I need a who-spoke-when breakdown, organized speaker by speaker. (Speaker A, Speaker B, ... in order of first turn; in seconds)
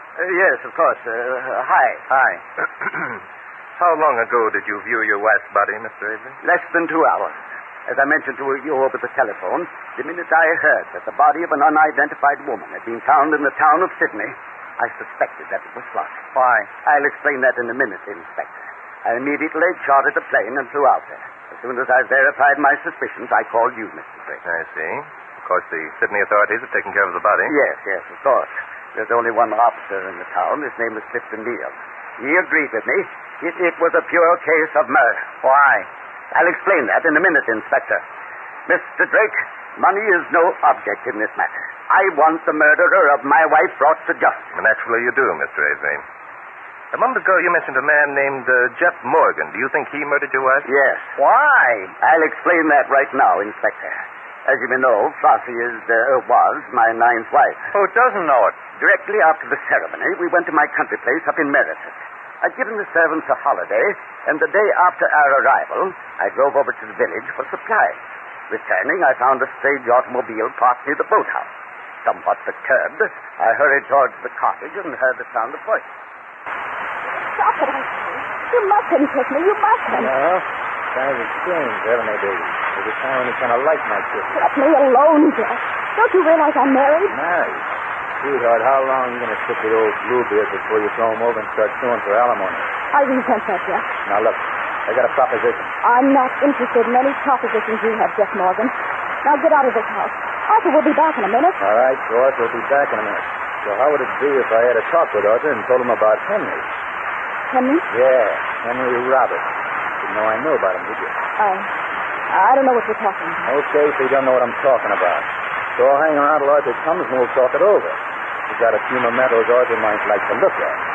Speaker A: 0.2-2.1, 6.4-16.2, 16.8-24.4, 27.5-35.3, 36.3-38.0, 38.7-44.5, 50.7-51.1, 52.0-57.7, 58.8-68.0, 68.5-71.5, 72.0-75.9
Speaker B: 2.1-2.4, 16.4-16.7, 35.4-35.9, 51.2-51.9, 57.7-58.6
Speaker C: 2.8-3.1, 3.8-6.4, 24.4-27.6, 44.5-46.0, 46.9-50.7
Speaker D: 77.1-80.1, 84.3-87.2, 92.9-93.9, 95.8-101.6, 107.5-107.9, 111.4-111.7, 112.3-113.5
Speaker E: 79.9-84.5, 87.1-87.7, 88.2-92.7, 94.0-95.7, 101.6-106.7, 107.9-109.5, 110.0-111.2, 113.5-120.8